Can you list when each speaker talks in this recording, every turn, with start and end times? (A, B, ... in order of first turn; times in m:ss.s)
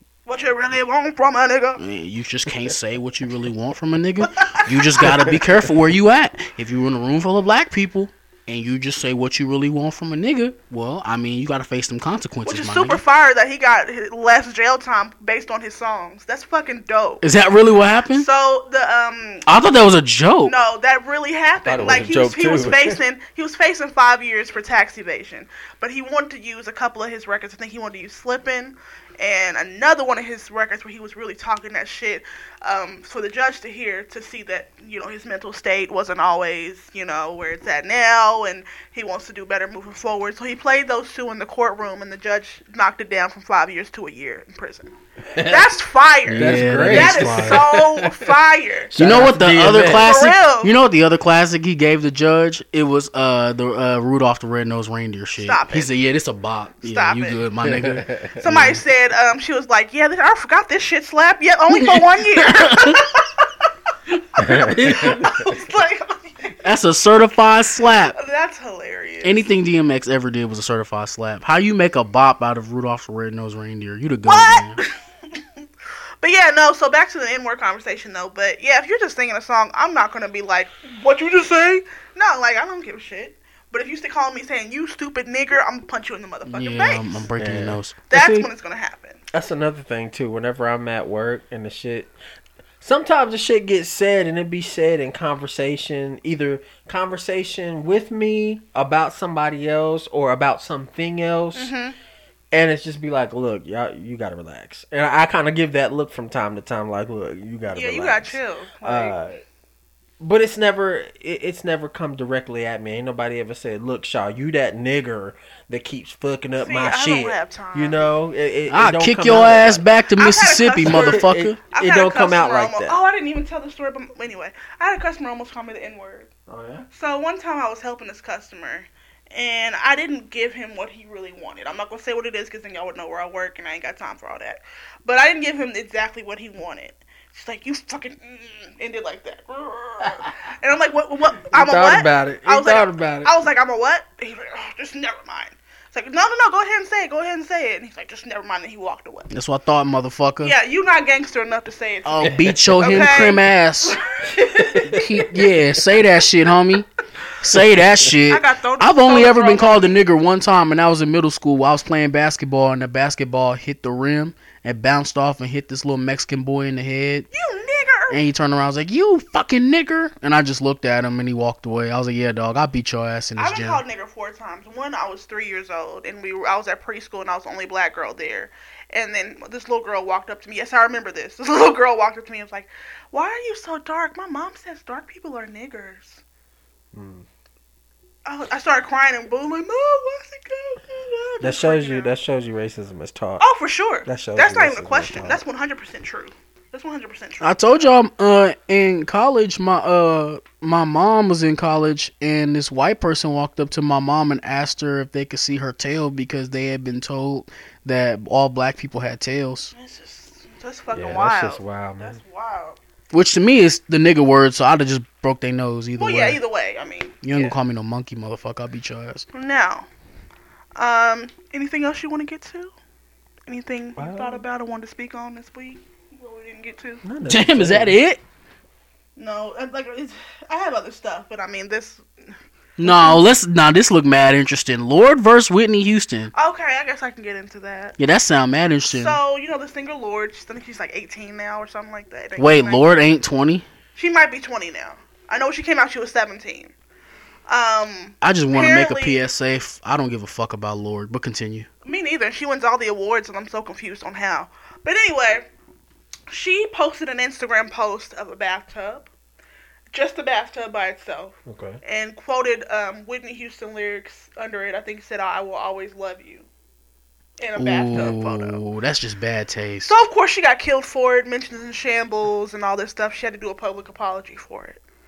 0:00.3-0:01.8 A
0:01.8-0:13.0 B
0:04.4-0:05.1 A
0:05.0-0:05.6 C
0:12.4-0:17.2 A
0:17.2-0:18.3 B
0:18.1-0:19.5 A
0:19.5-0:20.6 B
0:20.4-0:48.9 A
0:21.6-0:23.0 C
0:45.3-0:45.7 C
0:46.3-0:47.6 B
0:46.3-0:48.4 C
0:48.9-0:50.2 C
0:49.0-0:58.8 B
0:49.8-0:50.7 A
0:55.4-0:55.9 A
0:56.8-0:57.4 A
0:57.6-0:58.5 C
0:58.4-1:03.5 A
1:01.7-1:03.0 B
1:04.3-1:06.6 A
1:04.4-1:05.5 C
1:06.6-1:08.2 B
1:08.1-1:09.4 A
1:09.2-1:14.8 B
1:14.2-1:15.6 A
1:16.2-1:27.2 A
1:26.5-1:28.0 B
1:27.4-1:28.4 C
1:28.1-1:29.2 A
1:29.3-1:32.1 C
1:32.8-1:41.7 C
1:41.6-1:42.0 A
1:42.5-1:49.4 C
1:47.7-1:49.2 A
1:50.2-1:59.8 C
1:56.6-1:58.1 A
1:58.7-2:01.6 B
2:00.2-2:06.3 A
2:00.8-2:03.0 C
2:06.5-2:06.9 C
2:06.9-2:29.3 A
2:21.5-2:23.3 C
2:29.3-2:30.6 B
2:30.4-2:35.2 A
2:32.0-2:34.0 B
2:32.2-2:33.0 C
2:34.2-2:35.3 C
2:34.8-2:36.9 B
2:37.4-2:47.3 B
2:38.3-2:40.0 A
2:47.3-2:48.2 A
2:48.1-2:53.8 B
2:53.4-3:06.2 A
3:06.9-3:07.3 C
3:08.3-3:12.1 A
3:11.4-3:13.4 C
3:13.4-3:17.9 A
3:14.0-3:15.4 C
3:17.4-3:29.7 B
3:29.7-3:32.8 A
3:30.9-3:32.2 C
3:33.1-3:36.4 B
3:36.0-3:37.6 A
3:37.2-3:39.3 B
3:39.3-3:39.9 A
3:40.8-3:42.7 A
3:43.5-3:47.0 A
3:44.0-3:44.4 C
3:47.0-3:48.0 C
3:47.3-3:48.2 B
3:49.2-3:52.0 A
3:52.8-3:56.3 B
3:52.8-3:53.2 A
3:56.3-3:58.0 A
3:58.0-3:59.2 B
3:58.9-4:02.9 A
4:02.4-4:03.7 B
4:04.0-4:06.7 A
4:07.5-4:09.2 A
4:08.2-4:11.7 B
4:11.8-4:15.5 A
4:16.3-4:19.1 A
4:19.9-4:26.5 A
4:21.5-4:21.8 C
4:27.4-4:28.6 A
4:27.6-4:30.0 B
4:29.9-4:34.8 A